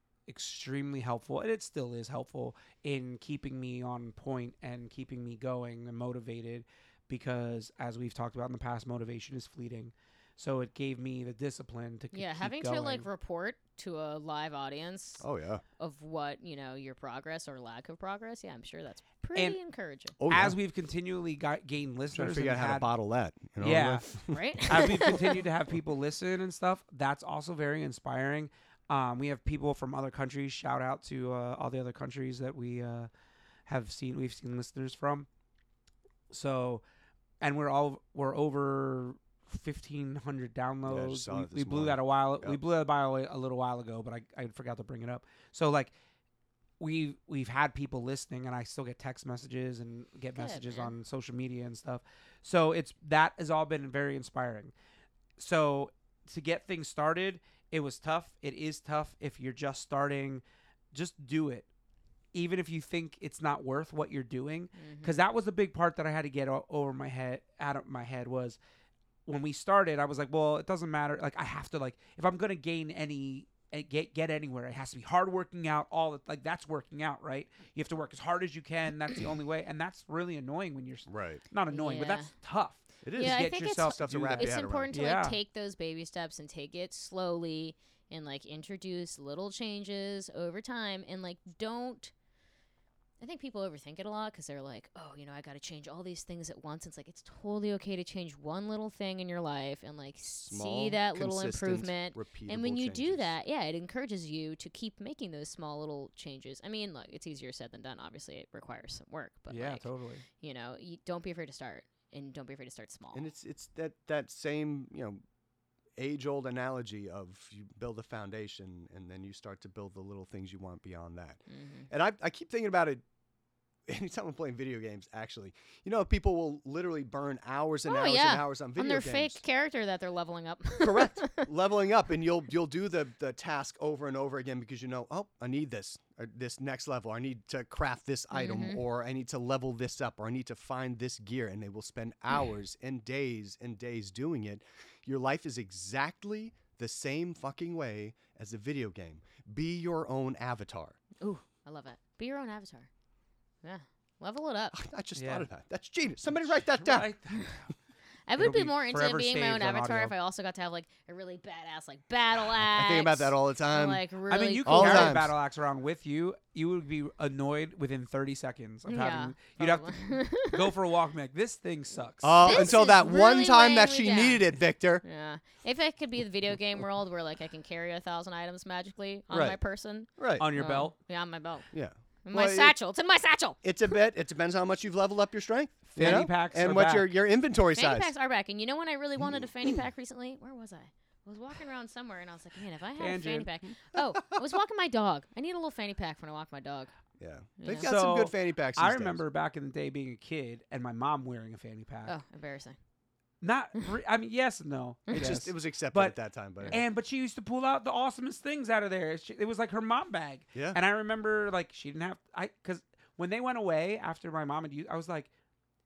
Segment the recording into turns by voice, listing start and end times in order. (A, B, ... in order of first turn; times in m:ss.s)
0:00.3-0:13.1 A
0:12.1-0:15.2 B
0:15.2-0:15.6 C
0:15.8-0:20.1 B
0:20.2-0:20.6 C
0:20.3-0:22.9 A
0:22.1-0:25.3 C
0:23.6-0:24.1 A
0:24.3-0:25.4 B
0:24.6-0:33.1 A
0:33.7-0:35.3 A
0:36.3-0:36.8 A
0:37.4-0:45.9 A
0:40.8-0:42.6 C
0:46.8-0:54.7 A
0:50.4-0:50.9 B
0:55.4-1:01.6 A
1:02.3-1:08.6 A
1:04.8-1:05.1 B
1:09.2-1:25.4 A
1:21.1-1:21.4 C
1:21.7-1:22.3 B
1:23.0-1:24.9 C
1:23.2-1:32.1 B
1:33.2-1:49.8 B
1:40.4-1:43.3 C
1:49.5-1:50.2 A
1:50.4-1:53.3 B
1:53.1-1:55.2 C
1:56.0-2:03.0 C
2:01.5-2:01.9 B
2:03.9-2:09.4 C
2:07.9-2:11.5 B
2:10.8-2:31.0 C
2:18.3-2:18.8 B
2:31.2-2:32.9 B
2:33.6-2:34.8 B
2:34.7-2:37.1 C
2:35.1-2:35.5 A
2:36.3-2:37.7 A
2:38.3-2:45.2 B
2:38.4-2:40.1 A
2:42.4-2:44.0 C
2:44.3-2:52.7 A
2:44.6-2:45.3 C
2:48.9-2:50.7 B
2:52.2-2:55.0 C
2:52.4-2:54.5 B
2:55.0-3:01.7 B
2:59.3-2:59.6 C
3:00.2-3:00.5 C
3:00.4-3:00.9 A
3:01.7-3:02.8 C
3:02.2-3:03.6 B
3:03.6-3:08.1 C
3:05.9-3:07.1 A
3:07.7-3:16.9 B
3:09.2-3:09.7 C
3:13.0-3:13.5 A
3:17.2-3:19.2 C
3:17.6-3:17.9 B
3:17.7-3:22.1 A
3:22.0-3:22.8 B
3:23.4-3:26.2 A
3:25.1-3:25.4 B
3:25.1-3:26.8 C
3:26.7-3:35.3 A
3:30.5-3:30.8 C